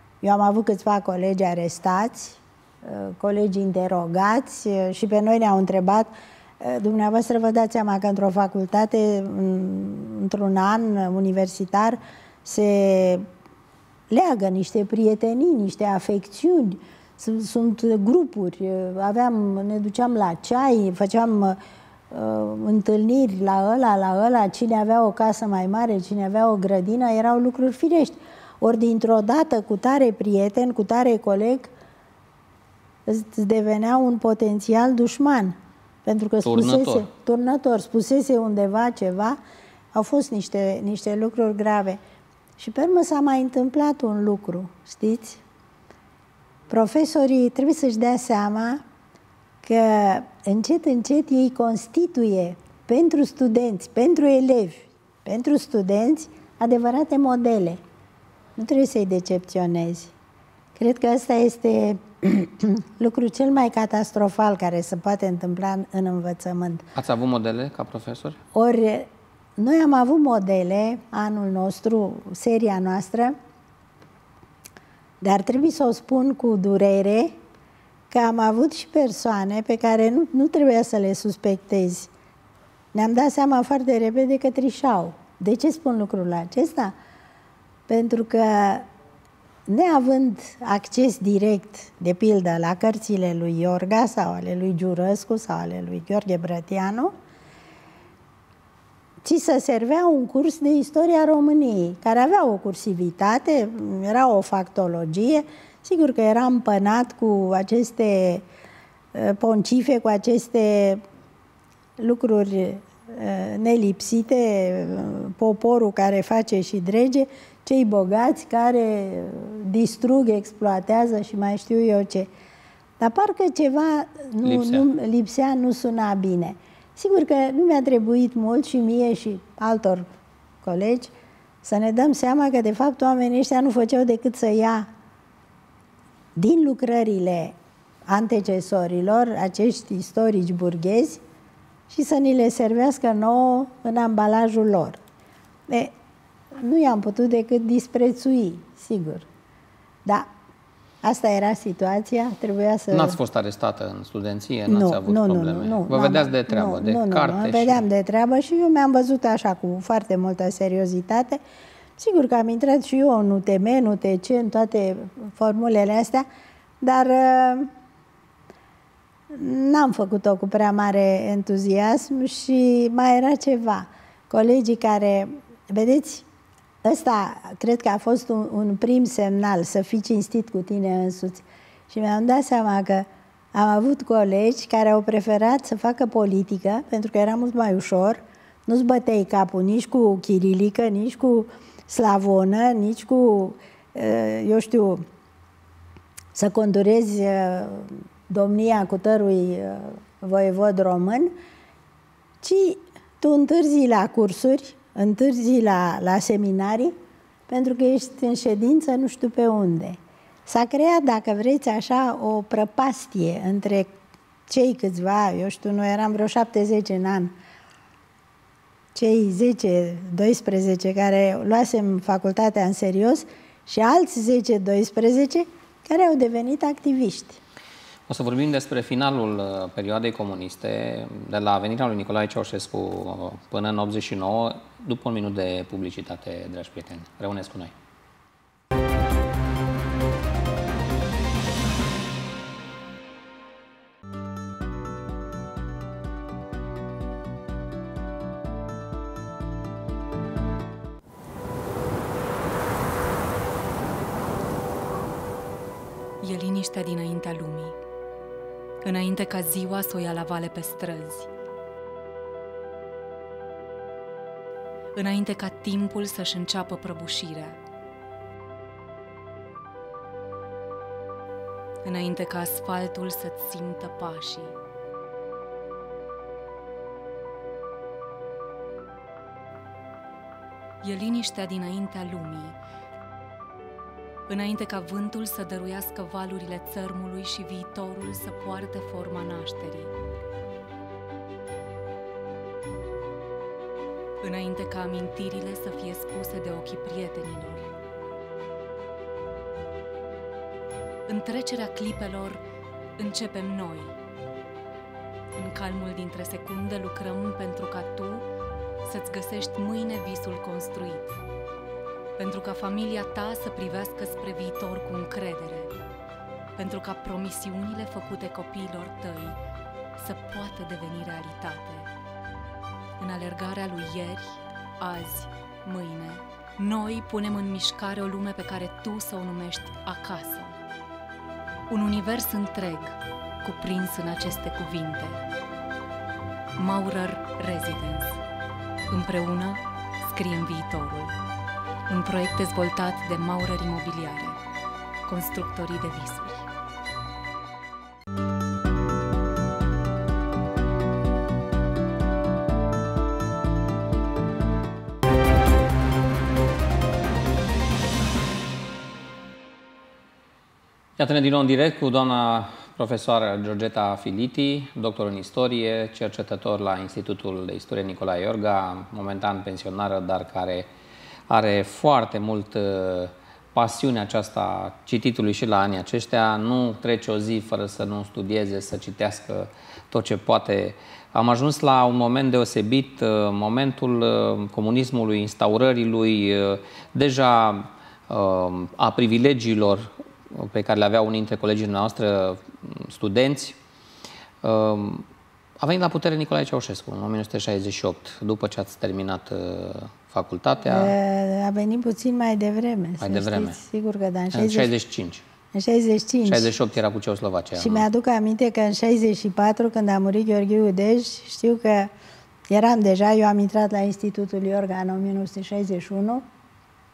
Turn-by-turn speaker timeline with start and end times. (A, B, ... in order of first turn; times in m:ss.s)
0:00.2-0:13.2 A
0:14.1-0:21.6 A
0:22.1-0:31.7 A
0:33.1-0:39.4 A
0:36.4-0:37.1 B
0:39.9-0:42.0 A
0:42.6-0:45.4 A
0:46.7-0:48.8 A
0:49.6-0:57.8 A
0:58.6-1:00.1 A
1:00.8-1:06.8 A
1:07.0-1:08.4 B
1:08.5-1:13.4 A
1:15.2-1:17.4 A
1:18.1-1:22.1 A
1:22.9-1:26.9 A
1:27.9-1:28.9 A
1:29.7-1:37.1 A
1:39.2-1:48.4 A
1:49.1-1:51.0 A
1:52.0-2:02.3 A
2:03.0-2:10.1 A
2:04.4-2:04.9 B
2:10.6-2:14.9 A
2:16.4-2:17.6 A
2:18.1-2:21.2 A
2:21.9-2:25.0 A
2:25.7-2:25.9 A
2:26.6-2:29.3 A
2:31.0-2:33.2 A
2:32.9-2:37.8 B
2:34.7-2:41.4 A
2:42.0-2:46.2 A
2:46.8-2:47.7 A
2:49.3-2:56.3 A
2:56.8-3:15.0 A
3:16.4-3:21.3 A
3:22.4-3:27.0 A
3:27.5-3:33.9 A
3:34.5-3:37.3 A
3:39.0-3:47.4 A
3:48.1-3:57.7 B
4:16.2-4:17.8 C
4:18.8-4:21.3 C
4:25.0-4:27.6 C
4:31.8-4:34.6 C
4:40.8-4:42.6 C
4:44.3-4:49.9 C
4:54.2-4:57.7 C
5:01.1-5:02.4 C
5:03.0-5:04.0 C
5:05.4-5:08.3 C
5:08.8-5:11.2 C
5:12.2-5:15.8 C
5:16.6-5:19.4 C
5:20.0-5:21.9 C
5:23.0-5:30.6 C
5:31.7-5:35.2 C
5:36.6-5:38.2 C
5:38.9-5:41.1 C
5:41.9-5:44.4 C
5:45.1-5:46.5 C
6:01.0-6:10.7 B
6:11.3-6:33.6 B
6:34.4-6:35.1 B
6:35.6-6:41.0 B
6:40.7-6:44.7 A
6:43.0-6:43.6 B
6:44.3-6:45.2 B
6:45.5-6:46.5 A
6:46.2-6:47.9 B
6:47.6-6:51.9 A
6:52.5-6:56.2 A